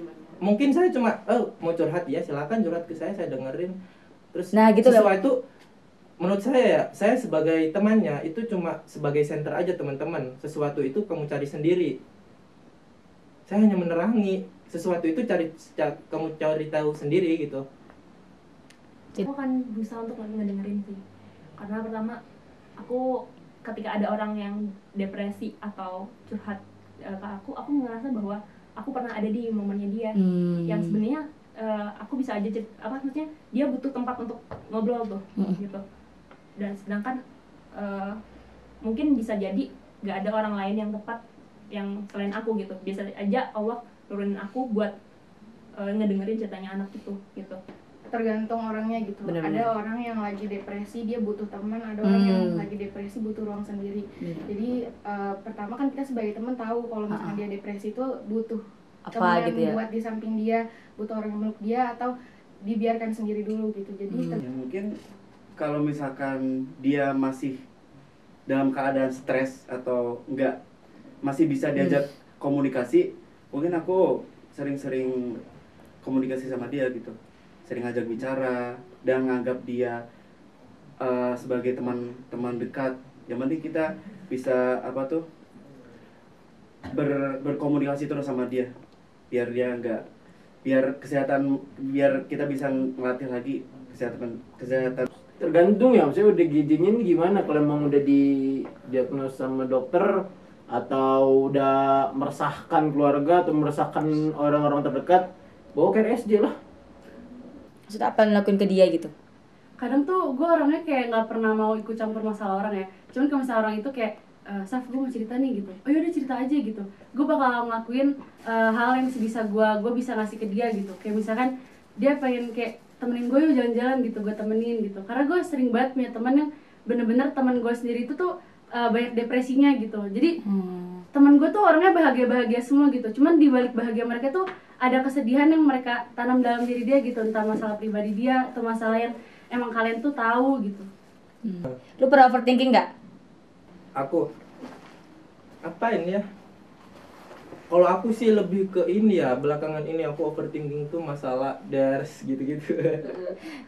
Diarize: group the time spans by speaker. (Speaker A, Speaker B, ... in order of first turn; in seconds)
Speaker A: 0.5-3.7, 6.2-11.8, 13.5-17.6, 145.7-146.2, 147.7-152.6
Speaker B: 4.5-5.2, 30.2-31.0, 49.2-49.7, 52.0-52.7, 54.2-54.5, 57.1-57.4, 59.1-59.8, 64.1-64.4, 71.8-72.0, 107.9-109.1, 130.4-131.0, 141.4-142.9
Speaker C: 19.2-21.0, 21.6-22.2, 22.8-23.0, 23.6-26.6, 27.1-35.8, 36.6-37.2, 37.8-38.1, 38.8-41.2, 41.7-44.9, 45.8-47.6
Speaker D: 48.1-58.6, 59.1-62.1, 62.6-64.4
Speaker E: 64.4-64.9, 65.6-67.6, 68.5-70.5, 71.2-75.4, 76.0-80.0, 81.0-85.2, 86.9-88.7, 89.3-90.0, 90.6-95.0
Speaker F: 95.4-106.5
Speaker G: 109.8-128.3, 128.8-130.3, 131.1-140.9